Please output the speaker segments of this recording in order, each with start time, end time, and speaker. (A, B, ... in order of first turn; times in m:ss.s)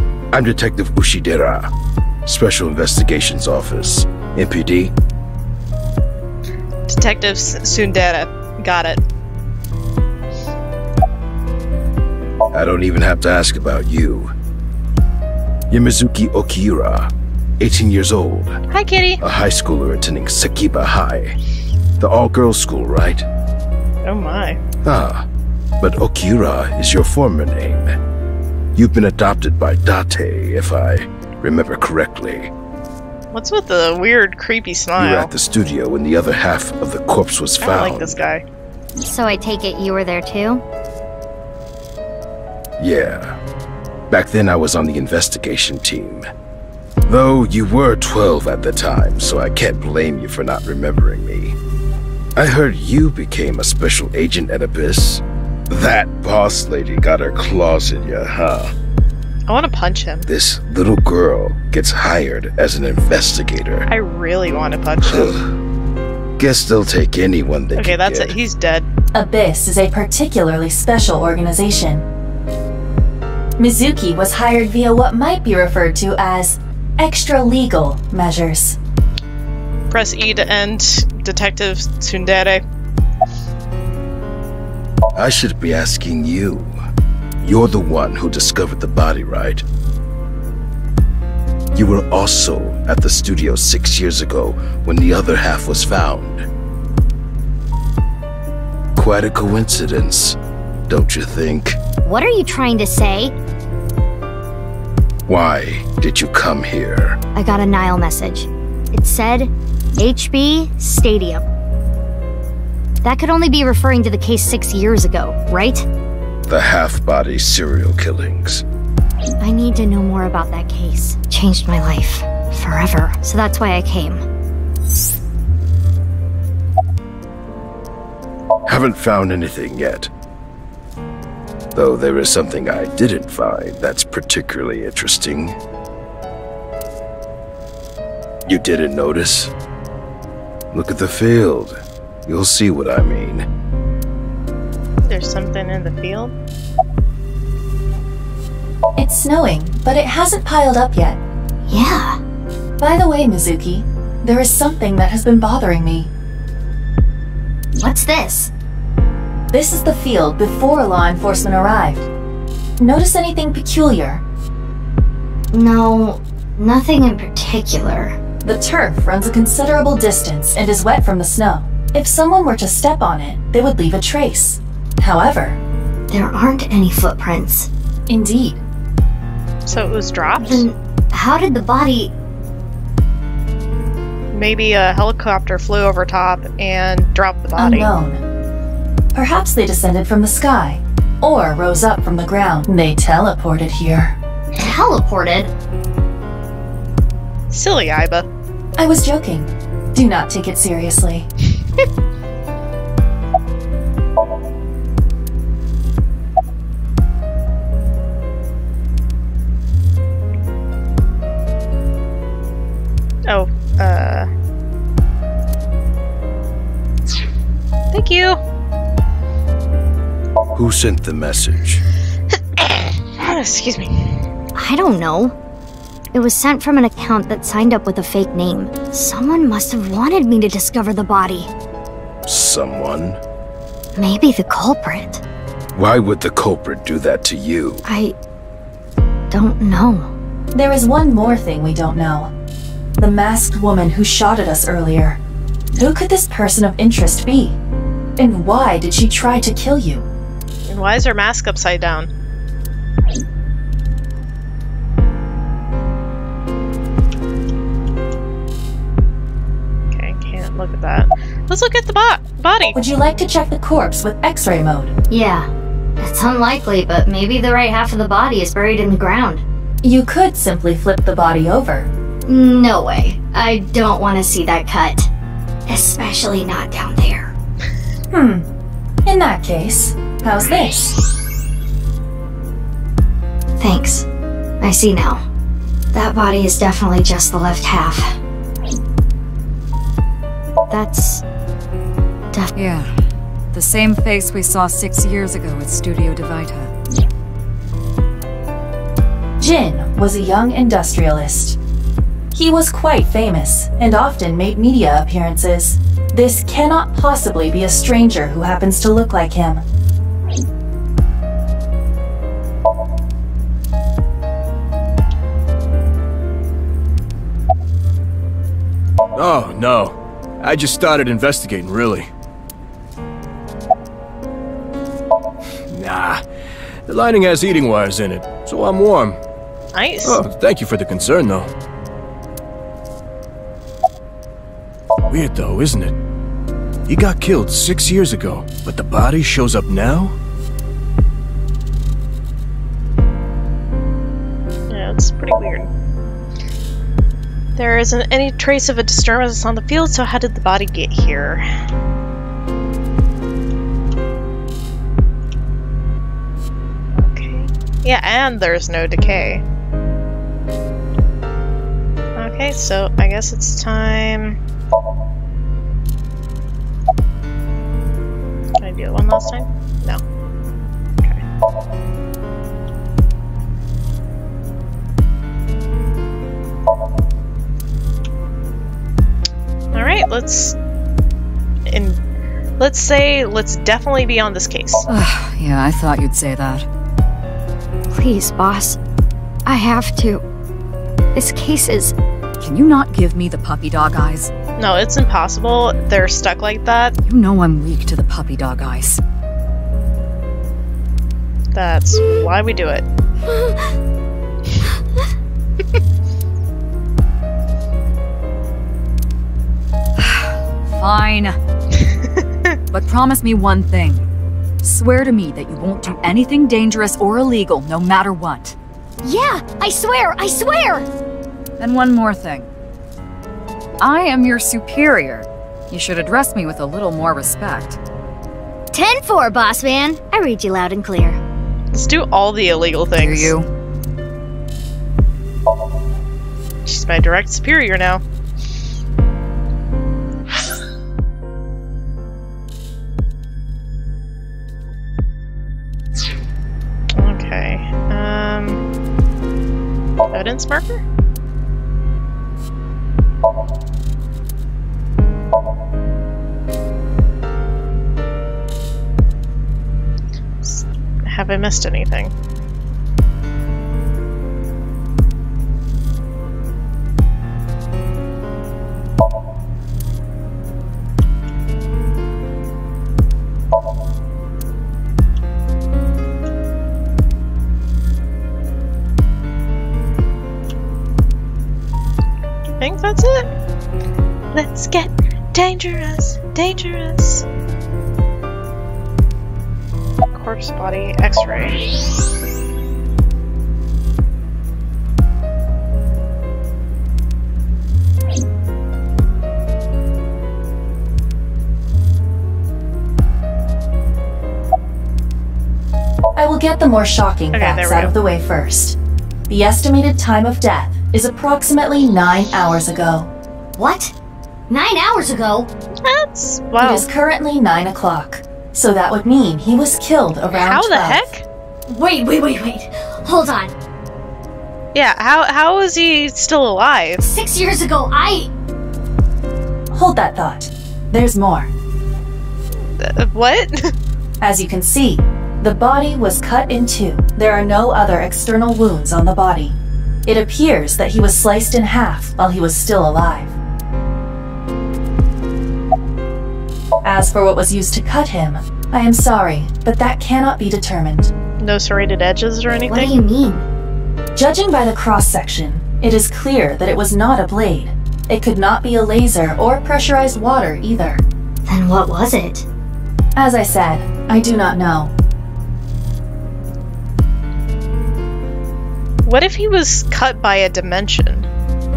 0:00.3-0:01.7 A
0:02.2-0:04.9 A
0:06.9-0:09.0 B
0:12.5-0:14.3 A
0:15.7-0:18.6 A
0:18.7-0:19.2 B
0:19.2-0:21.3 A
0:22.0-0:23.2 A
0:24.0-0:24.6 B
0:24.8-0:25.2 A
0:25.8-0:27.9 A
0:28.8-0:32.5 A
0:33.3-0:35.3 B
0:35.0-0:38.2 A
0:37.6-0:38.4 B
0:39.0-0:40.6 C
0:42.8-0:43.4 A
0:44.1-0:46.3 A
0:47.1-0:51.6 A
0:52.4-0:58.7 A
0:59.5-1:00.2 B
1:00.2-1:03.9 A
1:03.9-1:05.4 B
1:05.0-1:05.5 A
1:06.4-1:08.3 A
1:07.7-1:08.9 B
1:09.1-1:12.0 D
1:13.6-1:18.8 D
1:19.9-1:22.6 B
1:25.1-1:26.7 A
1:27.4-1:29.6 A
1:31.7-1:36.4 A
1:39.0-1:40.4 A
1:40.9-1:41.8 A
1:42.0-1:43.3 C
1:45.3-1:47.2 A
1:47.3-1:51.4 C
1:53.0-1:55.8 C
1:56.5-1:58.6 A
1:59.4-2:04.2 C
2:08.7-2:10.1 A
2:11.7-2:15.6 A
2:18.5-2:19.5 A
2:20.7-2:23.4 A
2:25.0-2:26.3 B
2:29.0-2:31.2 D
2:31.7-2:32.2 C
2:32.8-2:36.1 D
2:37.7-2:38.5 C
2:39.5-2:42.1 D
2:42.8-2:44.2 D
2:45.5-2:48.2 C
2:48.4-2:55.6 D
2:56.1-2:57.7 C
2:58.1-2:58.6 D
2:59.6-3:00.7 B
3:00.4-3:02.1 C
3:04.3-3:07.9 B
3:07.6-3:08.2 D
3:09.1-3:14.2 D
3:14.6-3:15.5 C
3:17.5-3:18.3 B
3:18.8-3:21.3 D
3:33.3-3:34.3 B
3:37.9-3:38.4 B
3:40.5-3:41.8 A
3:42.6-3:44.2 B
3:44.6-3:45.3 C
3:46.1-3:51.5 C
3:52.2-3:53.2 A
3:54.0-3:55.2 C
3:55.7-3:57.8 A
3:57.8-3:58.2 C
3:59.3-4:00.1 C
4:00.5-4:02.3 D
4:03.0-4:05.2 D
4:05.7-4:07.6 D
4:08.2-4:10.0 D
4:10.7-4:12.1 B
4:19.9-4:22.8 B
4:22.7-4:24.9 D
4:25.1-4:25.5 C
4:26.0-4:29.4 C
4:29.8-4:31.9 D
4:32.3-4:35.1 C
4:35.7-4:37.3 C
4:38.1-4:38.4 D
4:39.0-4:41.0 D
4:43.6-4:44.0 C
4:44.6-4:45.2 C
4:45.9-4:48.2 C
4:50.7-4:51.2 C
4:52.6-4:52.9 E
4:53.5-4:56.7 E
4:59.4-5:01.6 D
5:02.3-5:09.6 D
5:19.1-5:22.1 F
5:25.7-5:26.2 F
5:26.9-5:29.2 F
5:29.7-5:30.2 B
5:30.0-5:31.5 F
5:35.1-5:35.9 F
5:36.9-5:40.2 F
5:44.7-5:45.7 B
5:47.6-5:51.4 B
5:57.0-5:59.4 B
6:02.2-6:04.4 B
6:08.6-6:10.0 B
6:19.7-6:20.6 B
6:21.7-6:22.0 B
6:22.6-6:24.9 B
6:24.9-6:26.6 E
6:27.9-6:28.8 C
6:29.4-6:30.2 C
6:31.1-6:31.9 C
6:32.4-6:34.3 E
6:34.6-6:36.9 B
6:37.1-6:39.0 E
6:41.5-6:42.8 B
6:50.0-6:51.4 E
6:52.7-6:54.0 E
6:54.6-6:58.6 E
6:59.0-7:00.9 C
7:01.6-7:02.5 E
7:03.8-7:07.8 E
7:08.7-7:11.2 C
7:11.7-7:13.3 B
7:13.0-7:13.5 E
7:16.6-7:18.0 B
7:26.9-7:28.6 B
7:30.1-7:30.8 B
7:40.4-7:42.1 B
8:02.6-8:03.3 B
8:04.3-8:07.2 B
8:10.1-8:11.6 B
8:26.2-8:28.8 D
8:27.3-8:27.9 B
8:29.3-8:33.1 D
8:33.6-8:33.9 C
8:34.5-8:35.5 C
8:35.8-8:36.9 B
8:36.6-8:41.1 D
8:40.3-8:41.2 B
8:41.7-8:43.5 C
8:44.7-8:47.0 B
8:47.0-8:48.3 C
8:49.7-8:51.5 D
8:52.8-8:53.7 B
8:54.2-9:03.4 D
9:06.8-9:11.1 D
9:11.4-9:12.9 B
9:12.7-9:13.4 C
9:14.1-9:21.0 D
9:21.4-9:22.4 C
9:23.2-9:24.9 D
9:29.0-9:31.3 B